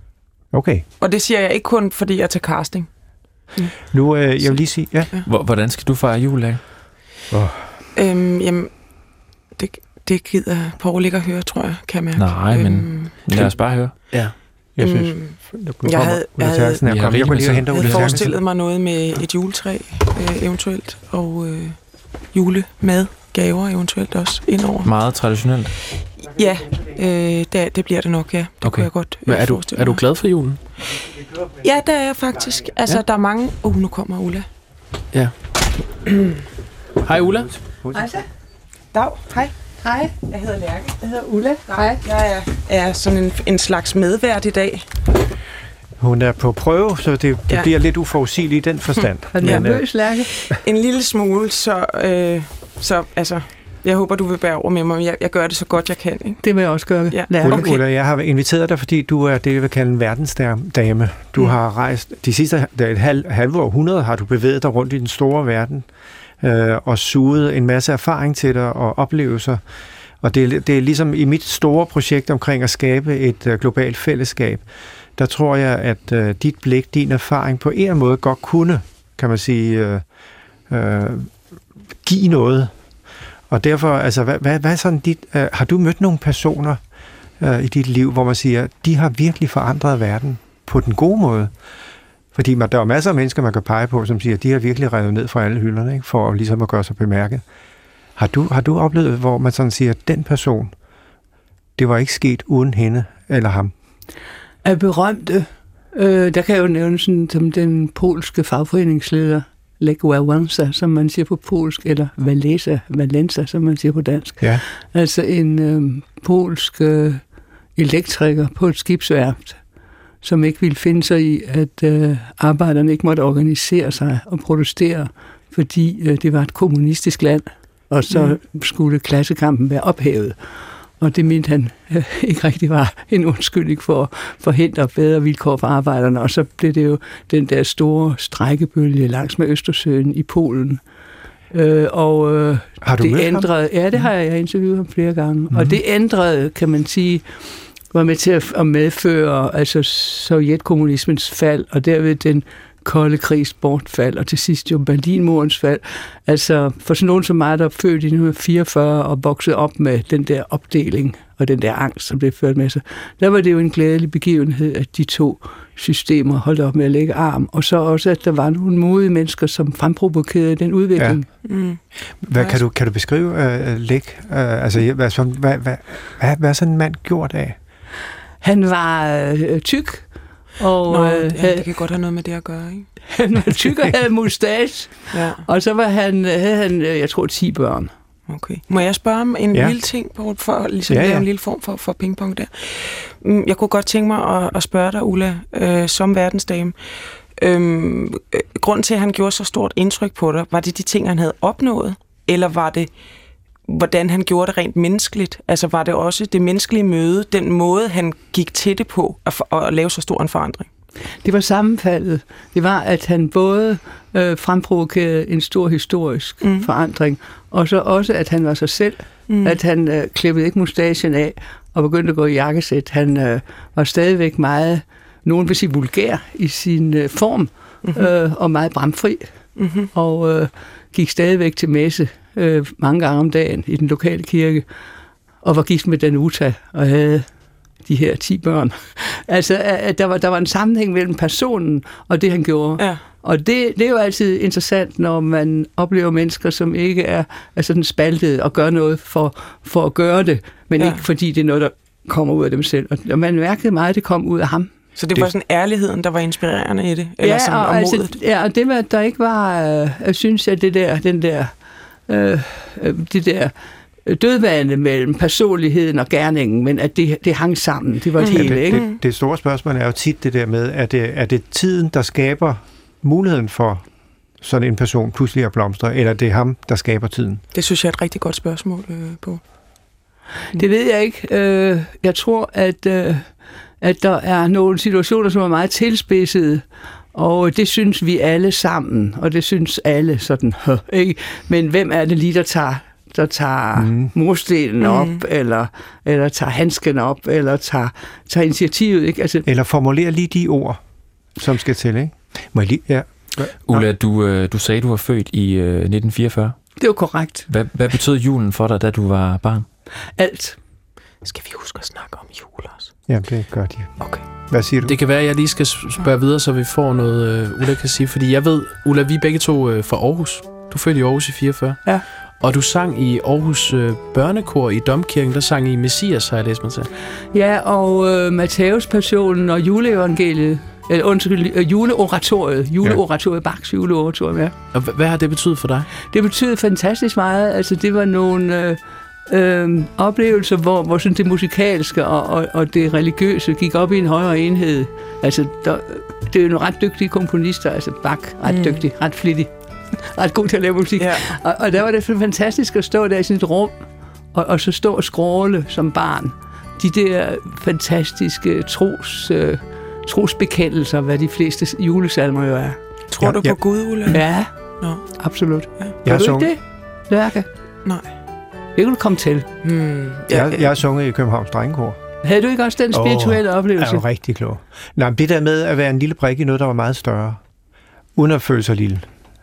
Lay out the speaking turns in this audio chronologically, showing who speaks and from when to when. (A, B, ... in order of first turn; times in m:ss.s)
0:00.5-0:00.9 A
0:01.0-0:02.9 B
0:03.9-0:05.1 A
0:05.2-0:06.6 C
0:07.3-0:07.7 A
0:08.0-0:08.7 B
0:09.6-0:13.1 B
0:12.2-0:14.0 C
0:14.8-0:18.3 A
0:14.8-0:21.8 B
0:16.9-0:18.2 C
0:22.3-0:24.9 B
0:24.8-0:25.7 C
0:26.2-0:30.0 B
0:28.6-0:28.9 C
0:29.3-0:30.6 D
0:31.6-0:34.5 B
0:37.0-0:37.5 D
0:37.1-0:38.1 A
0:37.9-0:38.2 E
0:38.9-0:39.6 B
0:39.8-0:40.1 E
0:40.2-0:41.0 B
0:41.0-0:42.0 E
0:41.7-0:44.9 B
0:46.0-0:49.8 A
0:49.0-0:56.4 B
0:49.3-0:50.3 E
0:56.4-0:57.7 E
0:57.1-0:57.8 B
0:57.4-1:05.9 A
1:06.4-1:09.6 A
1:10.2-1:14.6 A
1:15.2-1:20.0 A
1:20.7-1:21.3 A
1:22.0-1:22.7 A
1:23.5-1:26.8 A
1:27.4-1:31.5 A
1:32.3-1:37.4 A
1:38.2-1:40.7 A
1:41.8-1:43.7 A
1:44.6-1:57.2 E
1:57.8-1:59.6 E
2:00.2-2:10.4 E
2:08.1-2:08.4 B
2:11.0-2:20.8 E
2:21.5-2:27.2 E
2:22.8-2:23.5 A
2:25.5-2:25.8 A
2:27.9-2:51.2 E
2:51.0-2:51.2 A
2:51.4-2:51.8 B
2:52.2-2:57.6 A
2:58.4-3:00.0 E
3:00.6-3:01.7 E
3:00.9-3:02.9 B
3:03.1-3:07.9 E
3:05.1-3:05.4 B
3:08.3-3:16.8 B
3:10.9-3:11.3 A
3:17.4-3:22.9 B
3:23.7-3:30.7 B
3:31.2-3:49.3 E
3:36.4-3:36.7 B
3:39.3-3:39.6 B
3:47.8-3:48.1 B
3:49.6-3:49.9 B
3:49.9-3:54.6 E
3:55.4-3:57.3 E
3:57.8-4:14.7 E
4:15.0-4:18.1 B
4:17.2-4:21.5 E
4:22.1-4:23.5 E
4:24.1-4:28.8 E
4:28.2-4:29.0 B
4:28.2-4:33.8 A
4:34.4-4:37.4 A
4:37.5-4:39.4 B
4:40.5-4:43.3 E
4:43.8-4:59.5 E
4:53.8-4:54.1 A
4:54.8-4:55.2 B
4:59.4-5:00.8 A
5:01.4-5:03.9 A
5:03.7-5:06.6 C
5:06.8-5:07.5 E
5:07.5-5:09.7 C
5:10.2-5:10.6 E
5:11.2-5:12.9 B
5:13.1-5:14.0 A
5:14.5-5:15.0 A
5:14.8-5:21.8 D
5:22.4-5:26.9 D
5:27.3-5:34.5 E
5:34.7-5:35.9 D
5:36.1-5:49.5 E
5:48.5-5:48.8 B
5:50.1-5:53.8 E
5:51.0-5:51.3 B
5:54.3-6:02.8 E
6:03.1-6:04.2 B
6:03.2-6:03.6 A
6:04.1-6:04.5 E
6:04.8-6:05.1 B
6:05.0-6:07.5 E
6:06.0-6:06.5 A
6:08.8-6:09.5 E
6:09.6-6:10.7 B
6:10.3-6:12.0 A
6:12.2-6:14.0 E
6:12.9-6:17.4 A
6:18.2-6:19.1 A